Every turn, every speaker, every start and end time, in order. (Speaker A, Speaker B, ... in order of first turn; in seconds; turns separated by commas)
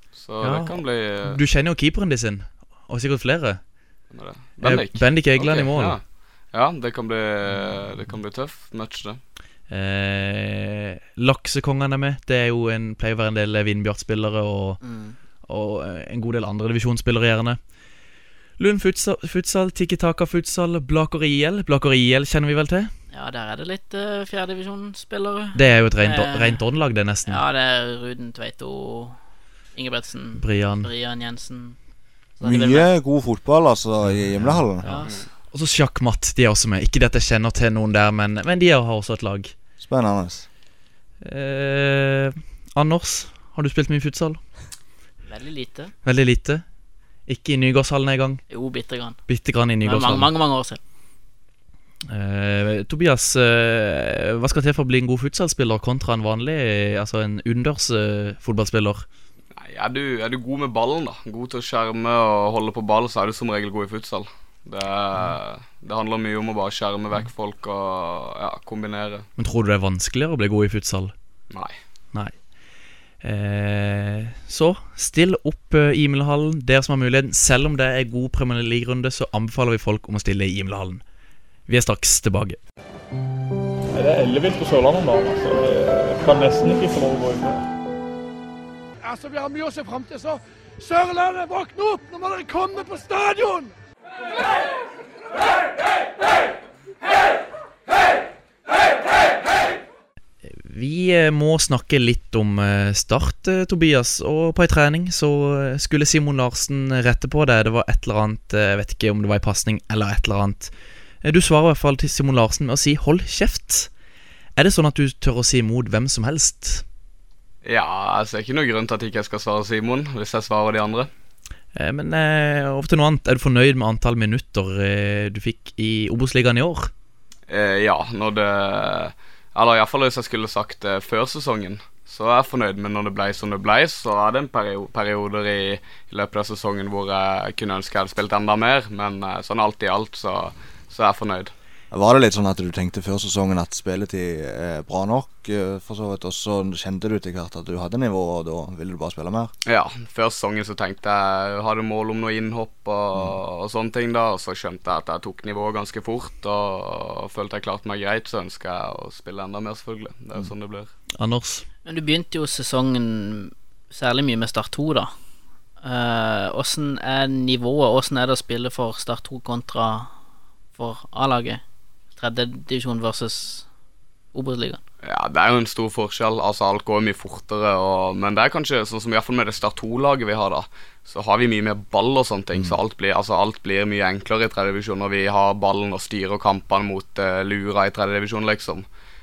Speaker A: 0.1-1.4, Speaker B: 0.4-3.6, Speaker A: 4.1-6.0, Speaker B: 4.6-6.0, Speaker A: 6.5-9.2, Speaker B: 9.7-14.8, Speaker C: 14.8-15.2, Speaker B: 15.4-17.6, Speaker B: 18.6-22.9, Speaker C: 23.1-26.6, Speaker B: 25.5-27.4, Speaker C: 27.2-29.1, Speaker C: 29.7-31.8, Speaker B: 30.4-30.9, Speaker C: 32.4-32.9, Speaker D: 32.4-34.9, Speaker B: 34.0-39.5, Speaker C: 34.8-35.2, Speaker D: 39.8-40.5, Speaker B: 41.2-44.4, Speaker C: 45.3-45.9, Speaker B: 46.0-46.6, Speaker B: 47.3-48.4, Speaker C: 48.5-49.2, Speaker B: 49.3-50.3, Speaker C: 49.8-50.8, Speaker B: 52.1-59.0, Speaker A: 59.5-69.3, Speaker B: 69.4-71.1, Speaker B: 73.2-81.0, Speaker B: 81.7-82.6, Speaker E: 83.9-87.6, Speaker F: 89.0-93.7, Speaker B: 100.4-110.7, Speaker B: 111.2-113.9, Speaker B: 114.5-116.8, Speaker A: 117.6-121.1, Speaker B: 121.7-126.9, Speaker A: 127.5-141.5, Speaker D: 141.9-149.5, Speaker A: 149.7-160.9, Speaker B: 161.2-161.7, Speaker C: 161.8-165.1, Speaker C: 165.8-170.1, Speaker C: 170.7-171.6, Speaker C: 172.2-173.7, Speaker C: 174.3-174.8, Speaker A: 175.0-188.8